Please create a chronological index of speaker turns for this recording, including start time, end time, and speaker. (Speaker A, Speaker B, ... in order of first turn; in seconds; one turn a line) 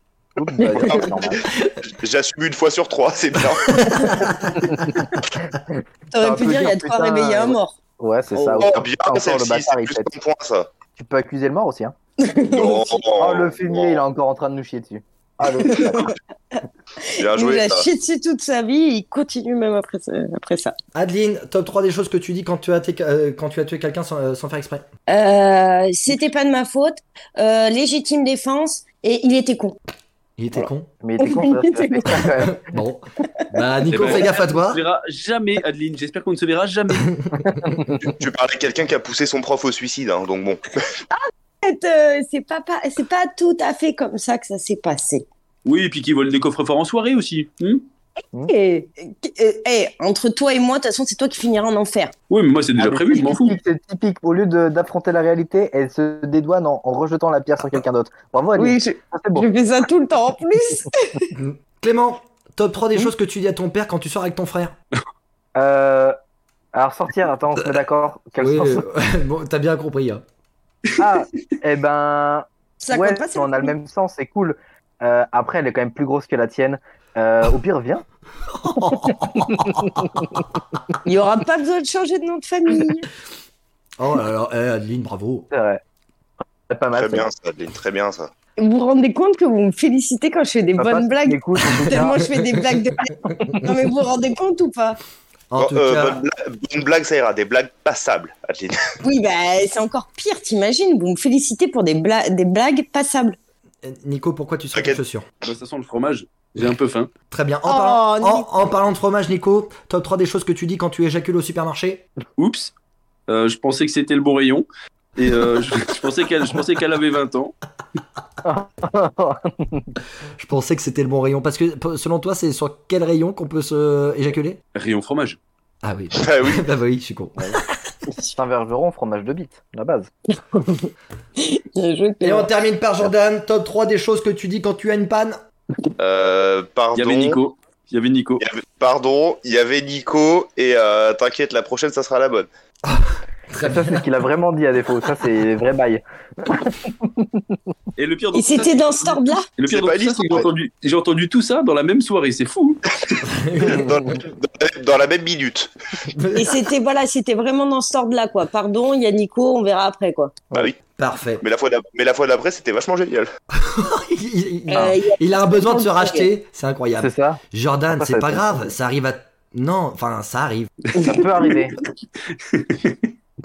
Speaker A: 0.4-1.4
Speaker B: 0.6-1.1
Speaker C: 0.8-4.4
Speaker D: 3.7-5.0
Speaker A: 4.7-10.1
Speaker B: 6.1-7.8
Speaker B: 8.3-8.7
Speaker C: 8.6-10.7
Speaker A: 11.0-11.9
Speaker B: 12.2-13.0
Speaker C: 12.5-14.0
Speaker A: 13.2-16.1
Speaker B: 15.6-16.1
Speaker B: 17.0-20.8
Speaker C: 17.2-17.9
Speaker D: 20.9-24.9
Speaker B: 25.1-29.8
Speaker D: 30.4-30.9
Speaker A: 30.5-32.6
Speaker B: 31.2-32.2
Speaker D: 32.5-34.8
Speaker E: 33.9-37.4
Speaker A: 37.5-38.1
Speaker C: 38.0-40.6
Speaker B: 41.1-45.2
Speaker E: 45.6-47.8
Speaker B: 48.5-52.1
Speaker E: 52.3-53.6
Speaker A: 52.8-59.5
Speaker B: 58.5-61.2
Speaker D: 61.3-64.8
Speaker A: 65.5-66.2
Speaker A: 66.7-68.9
Speaker D: 68.4-70.2
Speaker A: 71.0-78.0
Speaker B: 72.8-73.7
Speaker D: 78.5-80.0
Speaker A: 78.8-80.2
Speaker B: 81.0-83.1
Speaker D: 84.0-85.5
Speaker A: 85.5-85.8
Speaker A: 86.7-87.3
Speaker C: 87.0-88.3
Speaker B: 88.6-95.0
Speaker A: 90.8-92.4
Speaker D: 95.5-96.2
Speaker C: 95.5-98.8
Speaker B: 99.0-103.4
Speaker D: 103.8-105.3
Speaker E: 105.4-107.1
Speaker D: 107.3-112.0
Speaker B: 107.7-108.5
Speaker E: 112.4-112.7
Speaker E: 113.3-117.5
Speaker A: 118.4-119.9
Speaker D: 120.4-124.6
Speaker E: 124.8-125.4
Speaker D: 125.8-127.6
Speaker C: 126.1-126.6
Speaker A: 127.4-127.6
Speaker A: 128.2-130.1
Speaker B: 131.4-132.5
Speaker D: 132.2-135.4
Speaker C: 136.0-137.4
Speaker E: 136.9-138.4
Speaker C: 138.4-142.5
Speaker D: 142.9-144.0
Speaker A: 143.6-147.4
Speaker E: 148.0-153.0
Speaker B: 148.3-149.5
Speaker C: 149.7-150.5
Speaker D: 153.2-154.1
Speaker C: 153.7-155.7
Speaker D: 156.1-156.7
Speaker B: 156.4-160.3
Speaker D: 160.9-161.4
Speaker C: 161.4-163.3
Speaker D: 163.5-171.2
Speaker B: 164.7-166.3
Speaker A: 167.0-167.4
Speaker A: 167.9-168.7
Speaker A: 170.9-171.8
Speaker E: 172.4-173.0